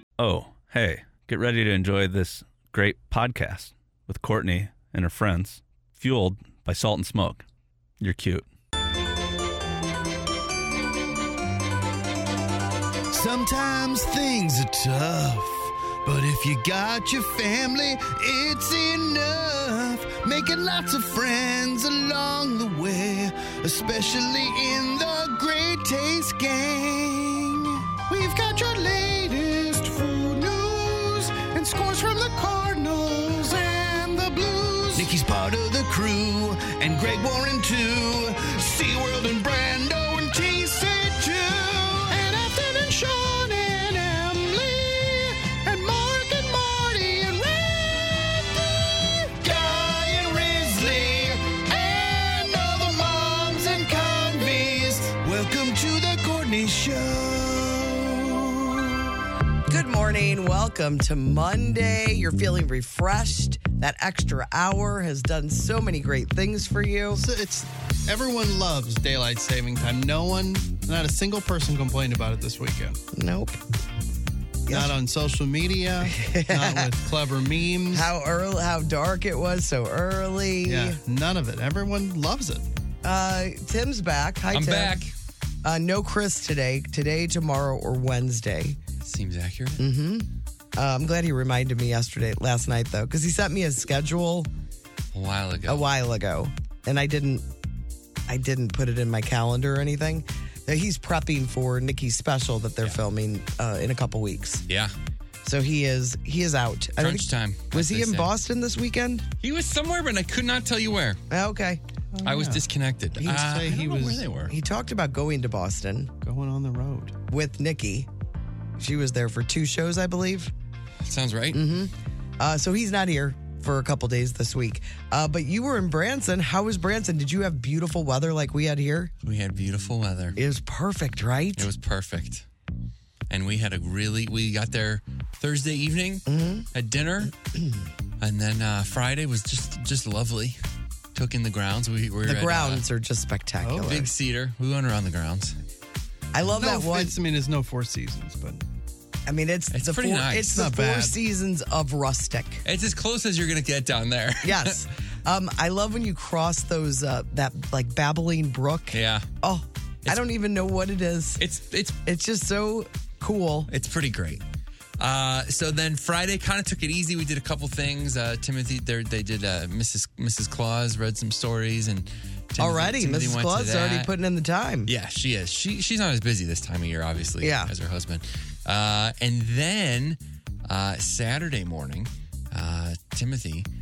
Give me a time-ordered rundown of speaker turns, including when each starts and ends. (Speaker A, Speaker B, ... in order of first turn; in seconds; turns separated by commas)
Speaker A: 0.2-7.4, Speaker A: 8.0-8.5, Speaker B: 13.1-59.0, Speaker C: 59.7-67.2, Speaker D: 67.1-73.0, Speaker C: 73.1-73.6, Speaker C: 74.7-74.9, Speaker D: 74.7-78.0, Speaker C: 76.0-76.9, Speaker C: 77.9-81.0, Speaker D: 80.6-82.7, Speaker C: 83.0-85.0, Speaker E: 84.5-85.1, Speaker C: 85.6-88.8, Speaker E: 89.0-89.8, Speaker C: 89.8-94.5, Speaker E: 95.1-95.9, Speaker C: 95.7-97.5, Speaker C: 98.3-104.6, Speaker C: 105.4-109.2, Speaker E: 107.0-108.3, Speaker E: 109.4-111.2, Speaker C: 111.3-111.8, Speaker D: 112.1-112.6, Speaker E: 112.2-114.5, Speaker C: 113.2-113.5, Speaker D: 113.2-114.2, Speaker C: 114.5-116.1, Speaker D: 116.2-117.1, Speaker C: 117.3-118.1, Speaker C: 118.8-120.5, Speaker E: 121.0-121.6, Speaker C: 121.5-129.1, Speaker E: 129.2-130.4, Speaker C: 130.3-131.7, Speaker E: 131.6-132.4, Speaker E: 133.3-137.3, Speaker C: 136.3-136.7, Speaker E: 138.2-140.6, Speaker E: 141.1-142.8, Speaker C: 142.2-144.1, Speaker D: 143.6-144.0, Speaker E: 143.8-145.5, Speaker C: 146.3-147.1, Speaker D: 146.6-148.6, Speaker C: 149.3-152.6, Speaker E: 149.7-150.7, Speaker D: 150.6-151.1, Speaker E: 152.6-154.8, Speaker C: 154.4-161.4, Speaker E: 158.9-159.2, Speaker E: 161.4-161.9, Speaker C: 162.0-163.7, Speaker E: 163.7-164.4, Speaker E: 165.0-174.1, Speaker C: 172.6-174.9, Speaker E: 174.9-183.7, Speaker C: 177.4-177.7